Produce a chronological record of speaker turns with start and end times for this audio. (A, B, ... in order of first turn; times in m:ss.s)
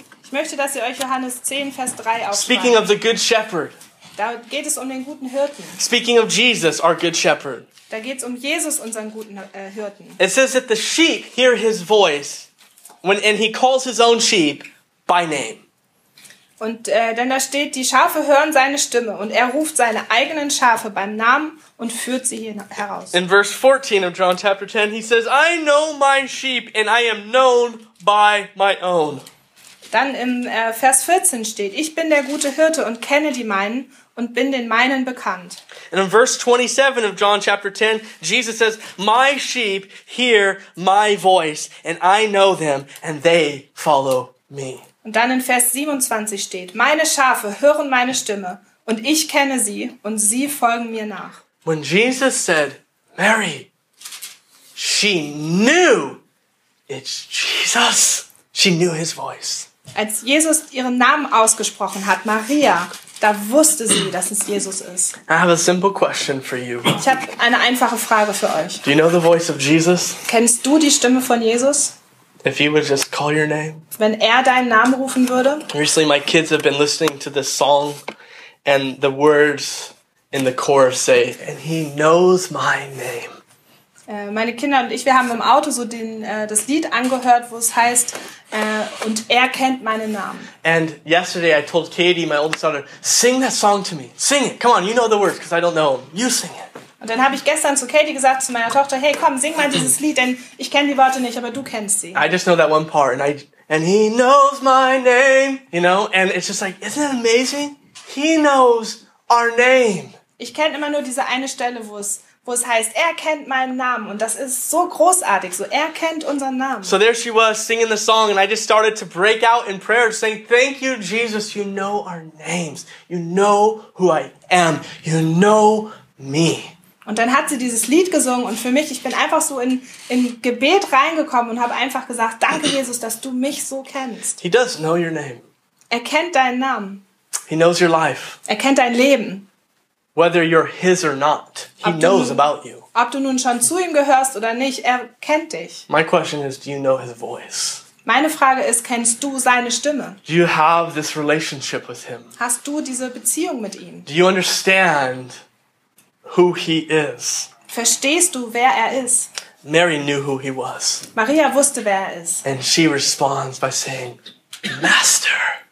0:00.2-0:02.9 A
0:02.3-0:03.8 B
0:04.2-0:05.8 A
0:05.8-0:07.7 B
0:07.9-0:10.2 A
0:10.2-0:12.5 B
0:13.0-0:15.6 B
0:16.6-0:23.2 A
0:23.1-0:29.2 B
0:29.9-0:35.6 A
0:35.9-0:44.8 B
0:45.0-0:51.4 A
0:51.6-0:53.7 B
0:54.7-0:56.2 B
0:56.9-0:59.7 B
0:59.9-1:05.2 A
1:05.3-1:07.0 B
1:06.9-1:08.8 A
1:08.8-1:10.2 B
1:10.2-1:12.0 A
1:12.4-1:13.8 B
1:14.0-1:15.7 A
1:15.7-1:18.0 B
1:18.6-1:23.4 B
1:24.1-1:30.5 A
1:30.6-1:36.7 B
1:37.0-1:42.2 A
1:42.1-1:50.2 B
1:50.4-1:57.0 A
1:56.8-2:06.7 B
2:07.0-2:14.4 A
2:14.4-2:15.4 B
2:15.9-2:17.0 A
2:17.5-2:18.4 B
2:18.5-2:19.5 A
2:20.1-2:22.8 B
2:21.8-2:25.8 A
2:25.9-2:27.8 B
2:28.0-2:30.2 A
2:30.2-2:32.3 B
2:32.4-2:34.1 A
2:34.1-2:35.4 B
2:36.2-2:37.5 B
2:37.7-2:39.3 A
2:39.6-2:41.1 B
2:41.1-2:42.4 A
2:42.4-2:45.5 B